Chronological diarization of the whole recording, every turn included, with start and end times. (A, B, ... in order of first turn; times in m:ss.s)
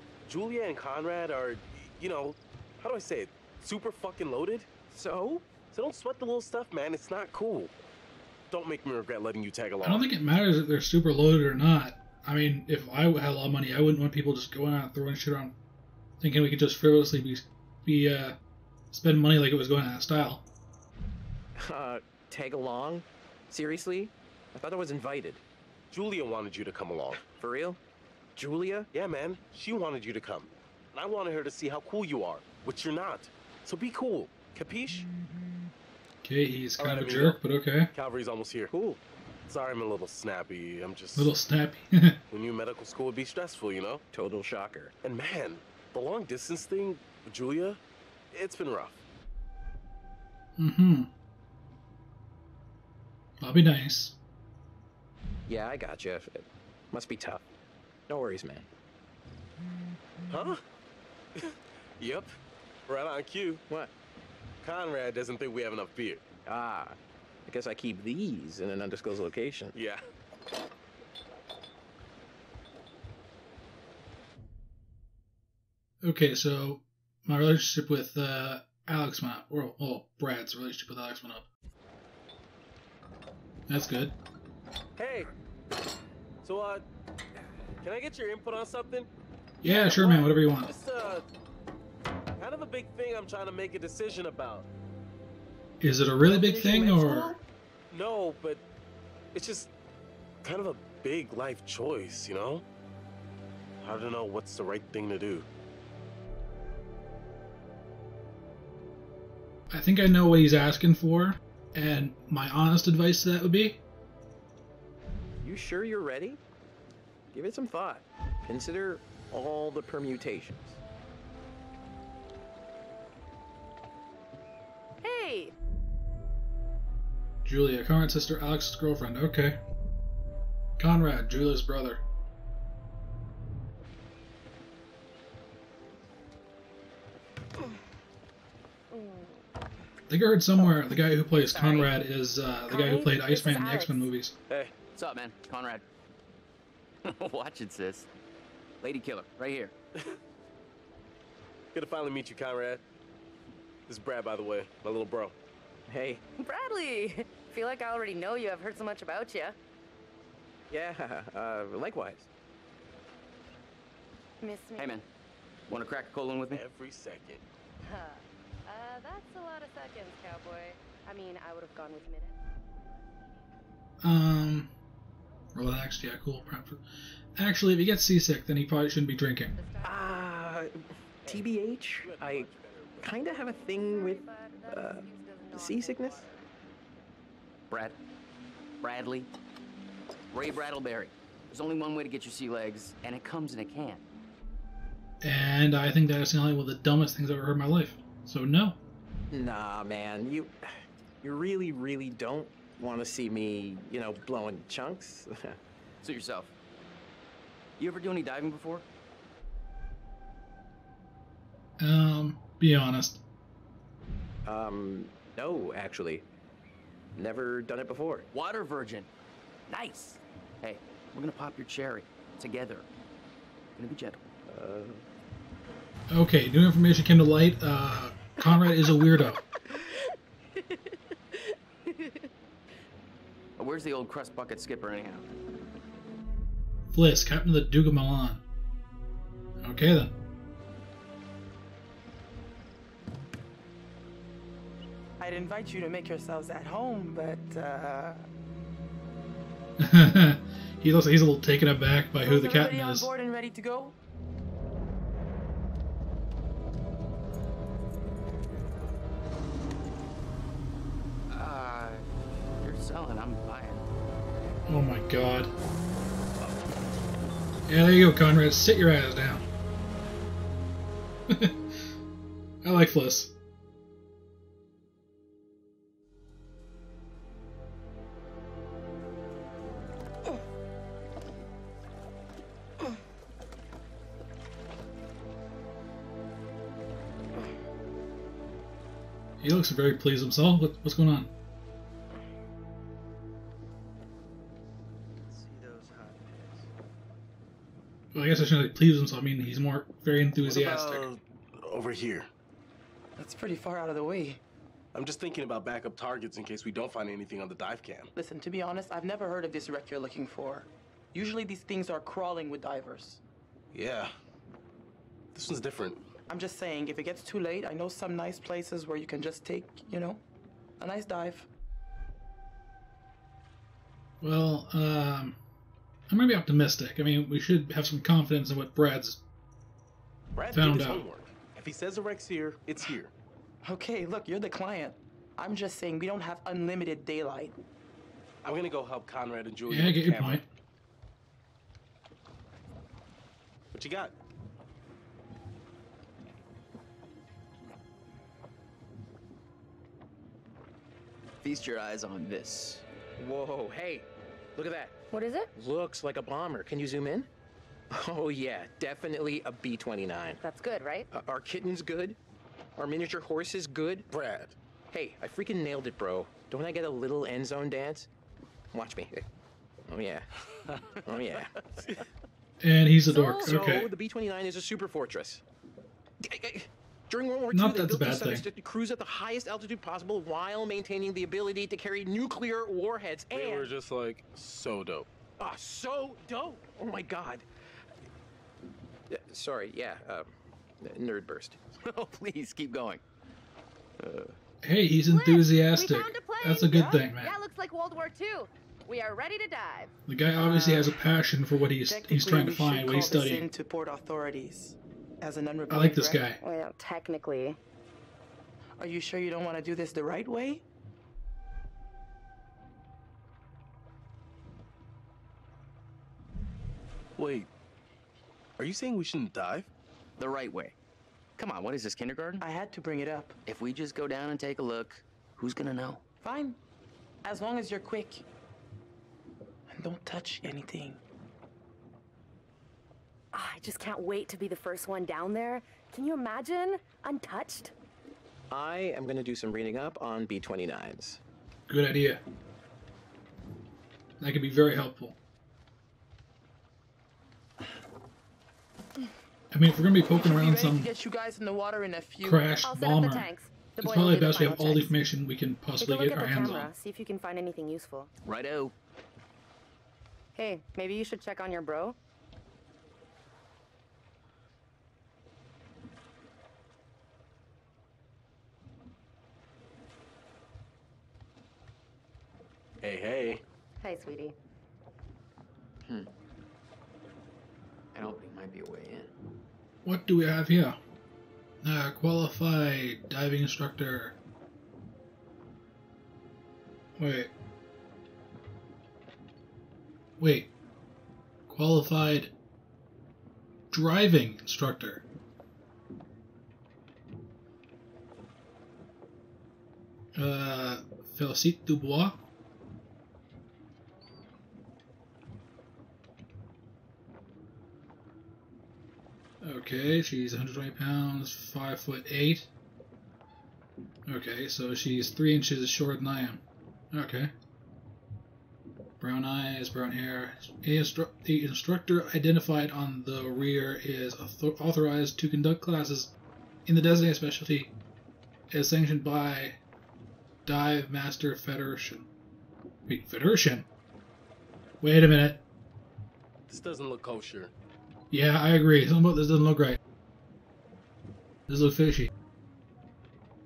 0:00.2-0:04.7 A
0:04.9-0:05.5 B
0:05.7-0:07.7 A
0:08.5-0:10.1 A
0:09.8-0:15.5 C
0:16.2-0:18.4 C
0:18.9-0:20.4 C
0:21.6-0:25.4 B
0:25.9-0:27.2 A
0:27.1-0:27.8 B
0:28.4-0:28.9 B
0:28.9-0:35.0 A
0:36.2-0:37.9 C
0:36.8-0:37.4 A
0:36.8-0:37.2 B
0:37.9-0:38.7 A
0:38.7-0:39.0 B
0:39.5-0:41.3 A
0:41.2-0:42.2 C
0:42.3-0:44.0 A
0:44.1-0:44.9 B
0:45.0-0:47.8 A
0:48.3-0:49.0 A
0:50.6-0:51.1 C
0:53.4-0:54.2 C
0:55.5-0:57.4 B
0:58.1-0:58.7 B
1:00.3-1:00.6 A
1:01.4-1:02.3 A
1:02.9-1:03.6 A
1:04.6-1:06.2 A
1:06.4-1:09.7 B
1:09.7-1:10.0 A
1:16.0-1:21.4 C
1:23.7-1:24.1 C
1:25.0-1:25.3 A
1:26.4-1:26.8 A
1:27.8-1:29.1 A
1:29.6-1:30.7 C
1:29.6-1:31.2 A
1:32.4-1:34.7 A
1:35.8-1:37.3 C
1:36.3-1:37.0 A
1:37.9-1:38.6 A
1:39.3-1:39.7 A
1:40.4-1:42.6 A
1:43.8-1:45.5 A
1:49.7-1:53.8 C
1:55.4-1:56.4 B
1:57.3-2:00.8 B
2:05.0-2:05.5 D
2:07.4-2:09.6 C
2:10.8-2:12.0 C
2:18.9-2:19.4 D
2:20.1-2:24.4 C
2:20.6-2:22.0 D
2:22.6-2:24.1 D
2:24.9-2:25.8 E
2:27.0-2:28.1 E
2:28.8-2:29.7 E
2:31.7-2:32.8 A
2:33.9-2:35.3 A
2:35.9-2:36.2 B
2:36.4-2:39.6 D
2:40.7-2:42.3 B
2:44.4-2:45.0 D
2:44.8-2:45.0 E
2:45.7-2:46.6 E
2:46.5-2:47.4 A
2:47.8-2:52.4 D
2:54.0-2:54.7 C
2:55.5-2:56.8 C
2:57.4-2:59.5 C
2:59.5-3:00.2 D
2:59.8-3:02.5 B
3:01.2-3:03.6 A
3:03.0-3:06.2 B
3:03.6-3:06.4 D
3:07.7-3:08.0 E
3:08.8-3:09.3 E
3:10.3-3:14.0 E
3:15.2-3:18.8 C
3:19.3-3:20.5 B
3:21.2-3:25.6 B
3:26.0-3:26.5 E
3:27.8-3:28.8 E
3:31.8-3:33.2 C
3:34.4-3:36.2 B
3:37.2-3:38.3 B
3:38.3-3:39.1 E
3:39.7-3:42.8 E
3:43.8-3:44.2 E
3:44.5-3:45.0 B
3:46.1-3:49.4 C
3:49.7-3:50.0 D
3:51.3-3:52.3 D
3:53.6-3:55.3 E
3:56.9-3:58.4 C
3:59.6-4:00.1 C
4:05.2-4:08.2 F
4:09.8-4:13.1 C
4:12.2-4:14.0 F
4:21.3-4:22.0 E
4:22.6-4:23.8 E
4:24.7-4:25.5 C
4:27.7-4:29.4 C
4:31.3-4:31.6 C
4:32.6-4:33.3 C
4:49.4-4:51.3 C
4:55.3-4:56.1 E
4:55.6-4:56.3 B
4:58.1-5:01.1 C
5:00.4-5:02.3 A
5:03.2-5:04.4 F
5:04.9-5:08.1 A
5:08.1-5:13.2 F
5:13.7-5:14.1 A
5:15.3-5:16.0 A
5:16.3-5:20.2 F
5:20.8-5:21.5 F
5:24.2-5:25.4 C
5:26.1-5:29.2 C
5:30.3-5:33.1 A
5:30.5-5:31.0 C
5:33.6-5:37.5 F
5:38.4-5:40.4 A
5:39.7-5:40.4 C
5:43.7-5:44.1 A
5:51.4-5:52.8 E
5:53.2-5:55.0 B
5:55.1-5:55.5 D
5:55.5-5:57.3 B
5:57.9-6:00.4 B
6:00.4-6:01.1 D
6:01.1-6:02.2 B
6:02.8-6:04.2 B
6:04.1-6:04.5 A
6:04.9-6:08.1 B
6:08.7-6:09.2 B
6:09.9-6:10.3 B
6:11.0-6:11.8 B
6:11.8-6:12.0 A
6:12.6-6:13.9 C
6:13.0-6:15.4 B
6:16.2-6:23.7 B
6:17.5-6:18.4 C
6:23.3-6:25.1 A
6:25.4-6:27.4 B
6:29.1-6:30.3 B
6:30.8-6:31.6 B
6:31.8-6:33.0 E
6:34.0-6:34.3 E
6:34.6-6:37.3 C
6:35.1-6:39.9 D
6:40.1-6:43.5 C
6:40.4-6:40.9 F
6:41.8-6:46.3 F
6:45.7-6:46.4 C
6:46.4-6:47.6 D
6:48.8-6:50.6 F
6:57.2-6:57.5 A
6:58.6-6:59.7 A
7:00.2-7:00.7 E
7:01.4-7:02.4 E
7:02.4-7:03.4 F
7:03.4-7:06.0 E
7:06.2-7:06.6 F
7:07.2-7:08.2 F
7:09.7-7:11.0 F
7:13.3-7:17.7 D
7:18.5-7:21.2 B
7:21.7-7:22.2 C
7:24.2-7:25.2 C
7:29.5-7:30.9 C
7:30.1-7:32.5 F
7:32.2-7:36.7 C
7:32.6-7:34.9 D
7:35.8-7:38.1 D
7:38.2-7:38.7 E
7:40.3-7:42.0 D
7:52.8-7:53.4 A
7:53.8-7:54.4 D
7:55.8-7:56.1 E
7:57.9-7:59.1 E
7:59.8-8:00.8 C
8:01.6-8:04.1 C
8:07.0-8:07.3 C
8:10.2-8:10.5 C
8:11.5-8:12.3 C
8:13.7-8:15.0 C
8:20.2-8:22.2 C
8:29.4-8:32.5 C
8:34.1-8:37.3 C
8:39.0-8:46.1 C
8:46.6-8:47.7 C
8:48.5-8:49.6 C
8:50.4-8:52.1 C
8:52.9-8:53.7 C
8:54.8-8:55.4 C
8:56.5-8:57.5 A
8:58.1-8:59.8 C
9:01.5-9:02.1 C